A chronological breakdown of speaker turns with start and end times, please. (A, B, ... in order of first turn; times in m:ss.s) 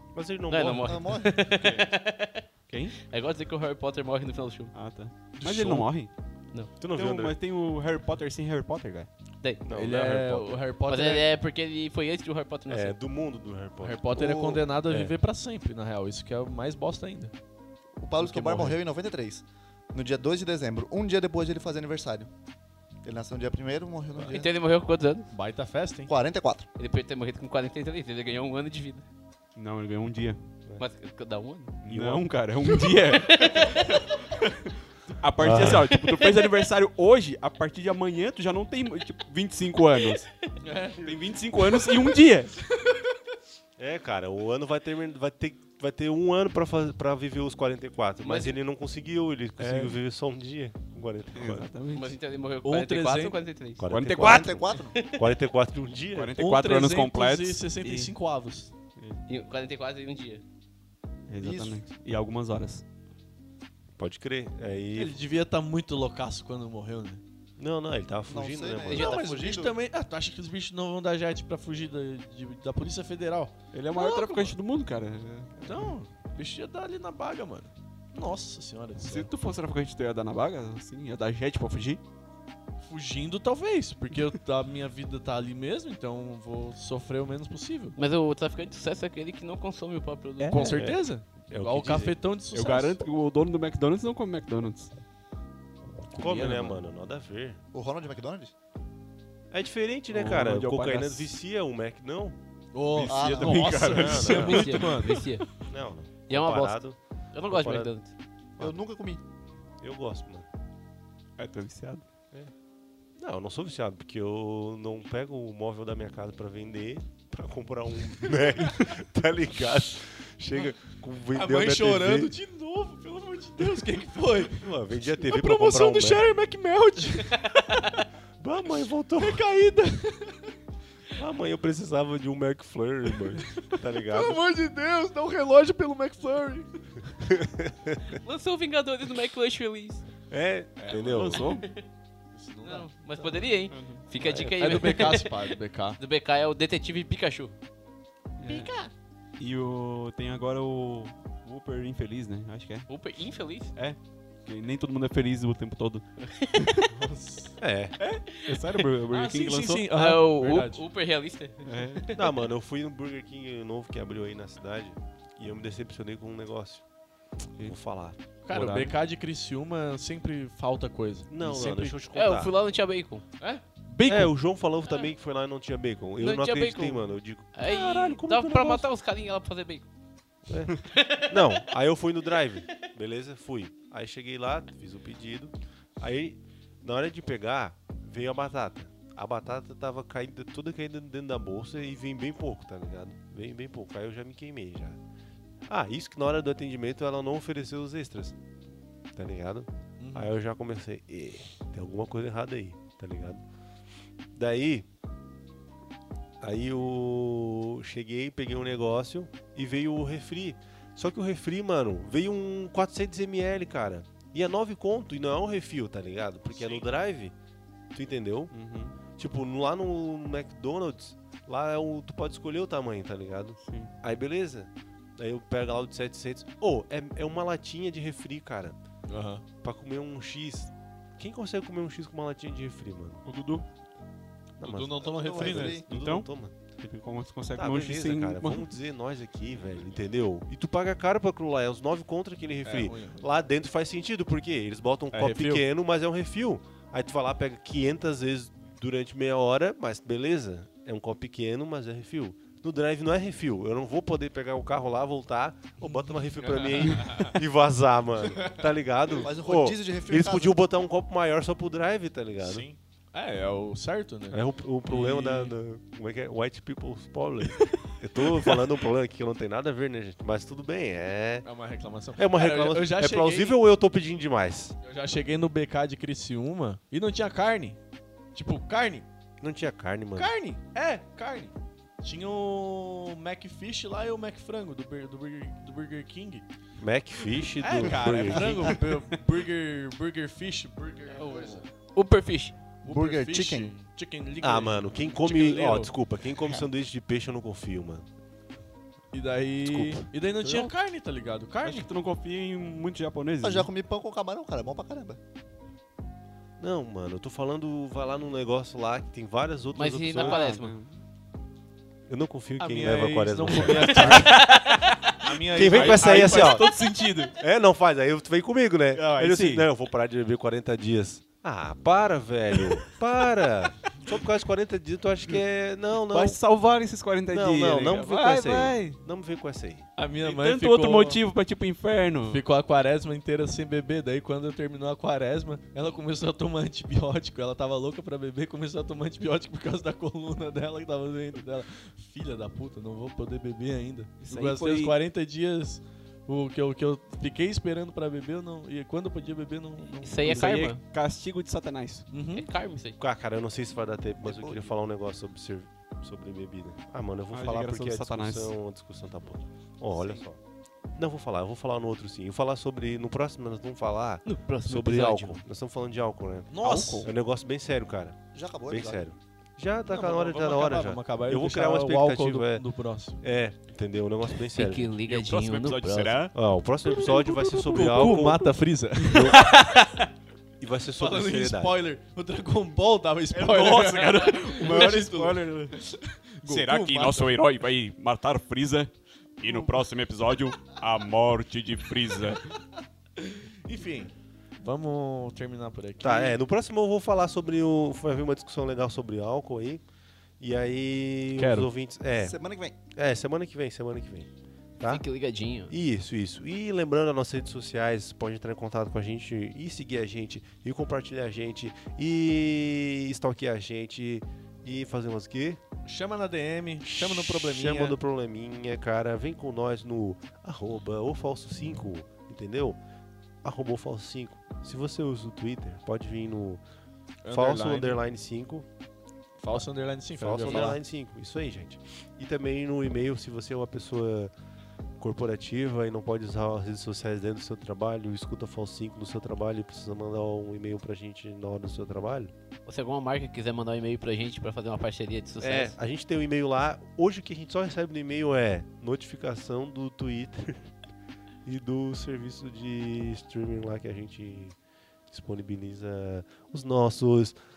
0:00.1-0:01.0 A
0:00.5-0:02.5 B
0:00.8-0:01.4 C
0:01.5-0:01.9 D
0:02.7-0:03.0 D
0:03.0-0:04.7 B
0:04.7-0:06.1 D
0:05.4-0:05.9 A
0:06.7-0:09.1 D
0:06.8-0:07.3 A
0:09.6-0:10.6 A
0:09.7-0:11.3 E
0:10.8-0:13.0 B
0:12.7-0:15.1 A
0:13.8-0:17.3 E
0:18.0-0:22.3 C
0:18.2-0:18.8 E
0:23.0-0:24.5 C
0:24.3-0:25.3 B
0:25.3-0:26.1 E
0:26.1-0:26.7 C
0:26.8-0:29.0 B
0:29.6-0:30.4 D
0:30.8-0:31.8 B
0:31.8-0:40.3 D
0:31.9-0:32.2 A
0:32.9-0:34.0 B
0:35.4-0:35.9 A
0:35.7-0:36.6 B
0:40.6-0:41.2 E
0:41.0-0:42.6 D
0:43.8-0:51.7 A
0:48.2-0:48.6 B
0:49.6-0:49.9 D
0:51.3-0:52.1 D
0:51.7-0:52.0 E
0:51.9-0:53.9 B
0:52.6-0:53.4 E
0:53.8-0:56.4 A
0:53.9-0:54.6 D
0:54.2-0:55.0 C
0:54.8-0:55.2 B
0:56.1-0:58.1 D
0:56.4-0:58.7 E
0:59.3-1:00.4 B
1:01.3-1:02.8 D
1:01.4-1:01.8 C
1:04.0-1:05.2 A
1:04.9-1:07.2 E
1:07.6-1:09.2 A
1:08.3-1:09.8 C
1:08.9-1:14.6 E
1:13.7-1:15.5 D
1:15.6-1:15.9 A
1:15.6-1:19.3 E
1:19.0-1:22.0 D
1:22.8-1:28.0 E
1:28.0-1:30.8 B
1:30.4-1:30.8 D
1:30.5-1:33.0 E
1:30.8-1:32.1 A
1:32.5-1:34.9 D
1:36.1-1:36.8 E
1:36.2-1:37.6 A
1:37.7-1:38.5 C
1:39.5-1:42.4 A
1:40.1-1:41.3 D
1:42.7-1:45.4 E
1:42.9-1:45.2 D
1:43.1-1:44.0 C
1:43.9-1:44.7 A
1:44.1-1:45.5 B
1:45.7-1:47.9 A
1:46.3-1:48.1 B
1:48.6-1:49.2 C
1:49.8-1:50.5 A
1:51.4-1:52.0 D
1:53.2-2:02.3 A
2:01.3-2:07.8 E
2:04.3-2:06.3 A
2:08.4-2:09.4 A
2:09.2-2:10.6 E
2:11.1-2:14.4 A
2:13.7-2:16.9 E
2:17.2-2:18.1 A
2:18.2-2:20.0 B
2:20.3-2:21.4 A
2:20.8-2:21.2 E
2:20.9-2:21.6 D
2:21.4-2:21.8 B
2:22.3-2:23.4 E
2:22.6-2:27.5 B
2:23.7-2:24.0 D
2:24.2-2:24.5 A
2:24.2-2:26.0 E
2:28.4-2:28.7 D
2:29.4-2:36.9 D
2:32.9-2:33.7 B
2:36.3-2:36.9 B
2:36.9-2:38.2 E
2:37.6-2:38.0 A
2:38.0-2:39.9 D
2:39.1-2:40.8 E
2:39.9-2:42.3 B
2:41.6-2:42.1 D
2:42.1-2:46.8 A
2:47.6-2:48.2 A
2:48.4-2:49.0 D
2:48.4-2:52.0 E
2:51.3-2:52.5 A
2:52.1-2:53.2 B
2:53.4-2:54.4 E
2:54.0-2:58.8 A
2:56.2-2:59.9 B
3:00.5-3:15.0 A
3:00.9-3:01.6 B
3:15.7-3:18.4 A
3:19.1-3:23.4 A
3:20.0-3:20.3 E
3:24.3-3:24.9 A
3:26.4-3:37.3 A
3:36.5-3:36.8 E
3:37.9-3:38.5 A
3:38.5-3:38.9 D
3:39.2-3:48.8 A
3:43.6-3:43.9 D
3:49.1-3:49.4 E
3:49.6-3:53.2 A
3:53.2-3:53.6 D
3:54.6-3:56.5 A
3:54.6-3:55.8 E
3:55.0-3:55.9 C
3:55.9-3:58.6 D
3:57.5-4:22.6 A
4:02.6-4:03.3 E
4:05.1-4:05.6 E
4:15.9-4:17.4 E
4:19.2-4:20.6 C
4:22.4-4:25.5 E
4:24.3-4:31.4 A
4:31.4-4:33.6 E
4:32.1-4:34.8 A
4:34.8-4:37.8 E
4:38.3-4:39.1 E
4:39.4-4:40.3 A
4:40.1-4:46.4 E
4:46.8-4:48.8 A
4:47.6-4:51.7 E
4:48.3-4:48.6 C
4:51.2-4:52.6 B
4:52.8-4:53.7 C
4:52.8-4:55.9 E
4:54.4-4:58.0 A
4:59.1-5:01.9 E
4:59.6-5:00.0 A
5:00.4-5:00.7 D
5:01.6-5:03.7 D
5:03.4-5:05.2 C
5:06.6-5:10.4 A
5:09.7-5:10.7 B
5:10.2-5:10.9 D
5:12.1-5:14.5 A
5:12.6-5:14.5 E
5:14.0-5:15.1 B
5:15.2-5:17.3 E
5:15.5-5:16.6 A
5:15.6-5:17.3 D
5:17.4-5:26.4 A
5:19.0-5:19.4 E
5:19.0-5:19.6 D
5:26.1-5:29.0 D
5:27.3-5:29.8 A
5:30.0-5:31.2 E
5:30.2-5:32.4 D
5:32.2-5:50.5 E
5:44.2-5:44.9 D
5:50.0-5:50.8 B
5:50.2-5:52.1 D
5:52.1-5:52.5 E
5:52.3-5:53.0 B
5:53.0-6:00.4 A
5:54.2-5:54.7 C
5:57.3-5:58.5 D
5:59.9-6:00.2 C
6:01.0-6:12.6 A
6:04.2-6:05.4 B
6:06.5-6:07.1 E
6:06.6-6:07.1 D
6:08.3-6:09.0 C
6:09.9-6:13.2 E
6:13.2-6:14.9 A
6:14.5-6:16.3 B
6:15.0-6:16.3 D
6:16.3-6:19.5 A
6:17.1-6:18.3 D
6:17.6-6:19.7 E
6:19.6-6:19.9 B
6:20.6-6:21.8 A
6:21.0-6:27.3 E
6:23.3-6:25.8 D
6:26.4-6:32.5 D
6:29.4-6:29.7 E
6:33.2-6:36.4 E
6:36.0-6:39.8 A
6:40.4-6:42.4 A
6:41.4-6:41.7 E
6:42.2-6:42.8 C
6:42.9-6:45.0 A
6:44.9-6:45.7 B
6:45.7-6:55.6 A
6:55.8-6:58.0 E
6:56.8-7:02.8 A
7:03.4-7:06.6 A
7:07.2-7:08.0 E
7:07.3-7:08.6 A
7:09.4-7:10.8 E
7:10.1-7:14.3 A
7:15.0-7:22.3 A
7:22.6-7:25.7 B
7:25.4-7:30.7 A
7:31.4-7:34.6 A
7:35.1-7:37.4 A